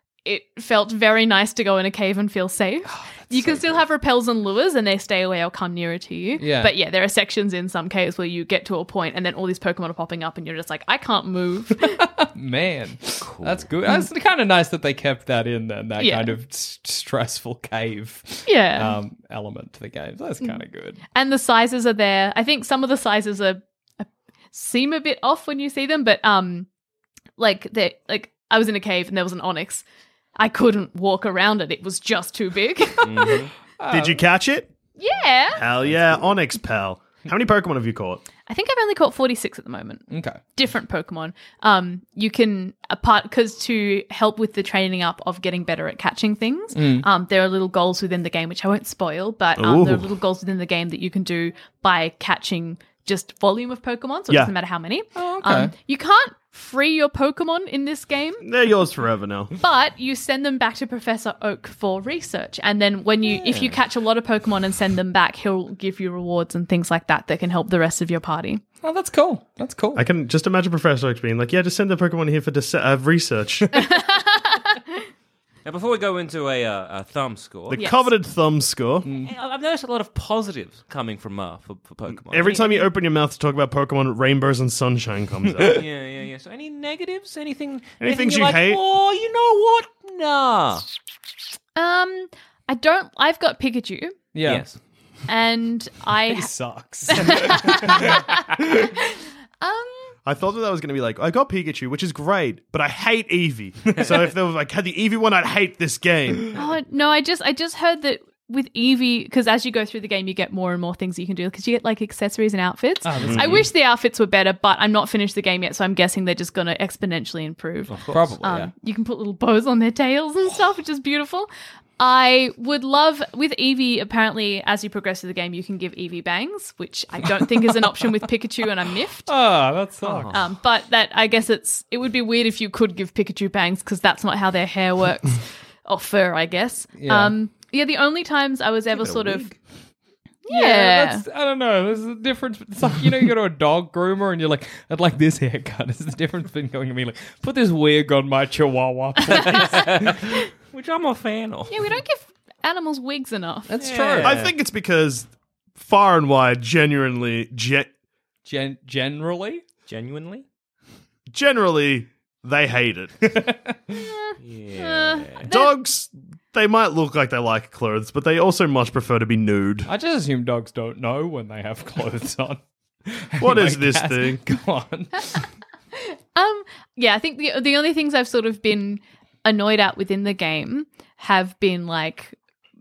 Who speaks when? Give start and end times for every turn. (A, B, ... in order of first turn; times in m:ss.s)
0:00.2-0:12.0 A
0:02.9-0:03.6 B
0:06.4-0:06.7 B
0:11.9-0:21.0 B
0:13.2-0:13.6 C
0:16.0-0:16.4 A
0:18.4-0:19.0 A
0:21.1-0:26.7 A
0:27.4-0:29.8 A
0:30.4-0:33.4 A
0:33.0-0:33.5 C
0:33.8-0:34.2 B
0:33.9-0:34.7 D
0:35.0-0:35.6 A
0:35.5-0:38.2 D
0:38.5-0:58.4 A
0:40.1-0:40.4 B
0:46.7-0:47.0 B
0:49.6-0:50.1 D
0:55.2-0:55.7 B
0:58.4-0:59.5 D
0:59.6-1:08.6 A
1:03.4-1:03.7 C
1:08.8-1:10.0 B
1:09.9-1:14.0 D
1:13.7-1:14.8 A
1:15.6-1:17.8 C
1:17.7-1:19.1 D
1:17.7-1:18.1 A
1:19.0-1:19.3 B
1:19.2-1:22.6 C
1:22.3-1:25.8 D
1:25.6-1:30.8 C
1:28.0-1:28.8 D
1:31.8-1:34.2 A
1:34.3-1:34.7 B
1:34.4-1:34.7 C
1:35.3-1:36.5 A
1:36.3-1:38.2 B
1:37.1-1:40.2 A
1:40.2-1:46.6 D
1:46.5-2:09.3 A
1:53.0-1:53.7 B
1:53.2-1:53.6 D
1:57.9-1:58.7 C
1:58.1-1:58.7 B
2:09.3-2:10.4 B
2:10.0-2:10.4 C
2:10.3-2:19.5 A
2:17.0-2:17.3 B
2:19.0-2:19.6 C
2:20.4-2:21.2 A
2:20.5-2:30.2 B
2:29.5-2:30.2 C
2:30.7-2:31.7 C
2:31.7-2:33.7 A
2:33.7-2:34.5 B
2:33.8-2:34.5 C
2:34.2-2:35.3 D
2:35.8-2:37.9 D
2:38.4-2:39.6 B
2:39.9-2:40.4 C
2:41.3-2:43.3 D
2:43.3-2:44.0 B
2:43.9-2:45.7 A
2:44.4-2:45.5 C
2:45.5-2:49.9 D
2:49.9-2:55.4 B
2:53.4-2:54.4 D
2:56.0-3:02.3 A